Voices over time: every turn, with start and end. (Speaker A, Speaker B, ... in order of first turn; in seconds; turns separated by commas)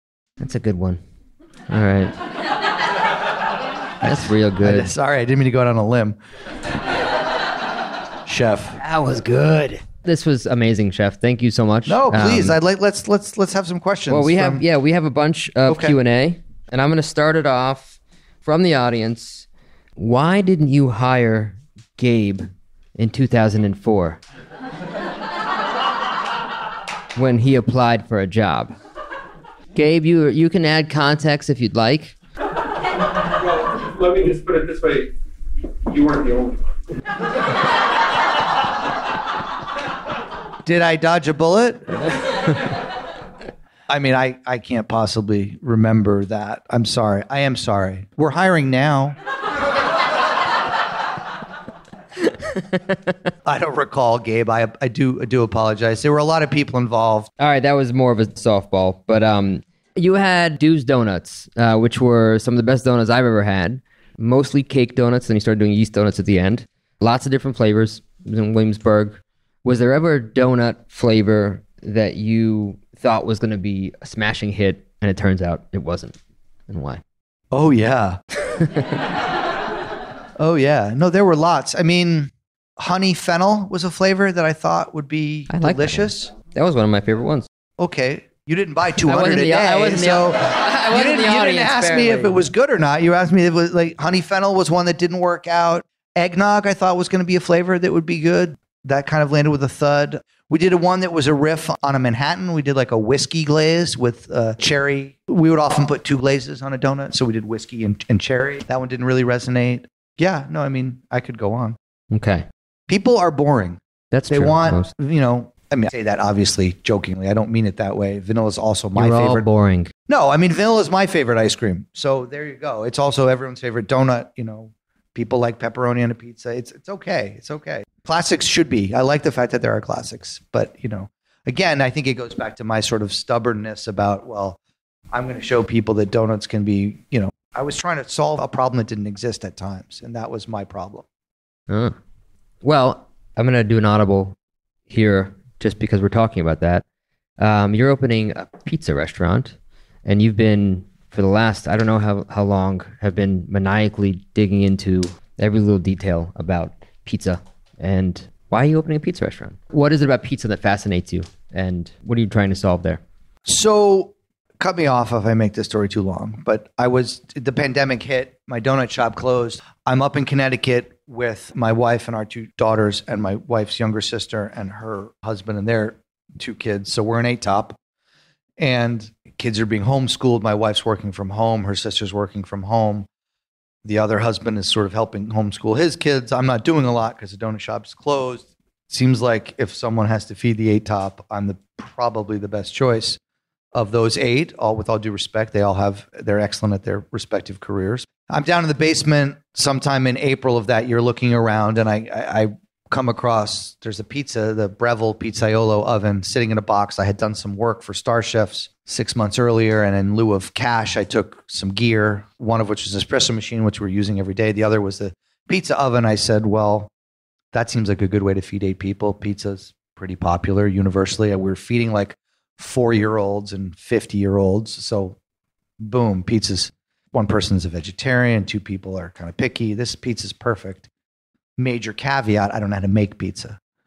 Speaker A: 0.4-1.0, Speaker A: 1.7-2.1, Speaker A: 4.0-4.9, Speaker B: 4.0-6.2, Speaker B: 8.2-8.8, Speaker A: 8.8-12.6, Speaker B: 11.8-14.6, Speaker A: 14.1-19.4, Speaker B: 15.7-16.0, Speaker A: 20.0-24.2, Speaker A: 27.1-28.7, Speaker A: 29.7-32.1, Speaker C: 33.8-35.1, Speaker C: 35.9-36.6, Speaker B: 40.6-42.1, Speaker B: 43.9-49.2, Speaker B: 53.4-57.3, Speaker A: 57.4-76.2, Speaker A: 76.7-77.0, Speaker B: 77.5-78.2, Speaker A: 78.5-79.0, Speaker B: 80.4-86.3, Speaker A: 85.5-87.5, Speaker B: 87.8-111.8, Speaker A: 89.0-92.4, Speaker A: 112.1-112.4, Speaker B: 112.9-119.4, Speaker A: 114.1-114.9, Speaker A: 118.9-119.9, Speaker B: 120.1-134.6, Speaker B: 135.1-141.0, Speaker A: 141.7-141.9, Speaker A: 142.6-144.3, Speaker A: 144.9-146.8, Speaker A: 147.4-163.0, Speaker B: 163.4-177.8, Speaker B: 178.6-183.1, Speaker B: 183.8-193.2, Speaker B: 193.7-216.9, Speaker B: 217.5-225.2, Speaker B: 225.8-230.9, Speaker B: 231.6-233.6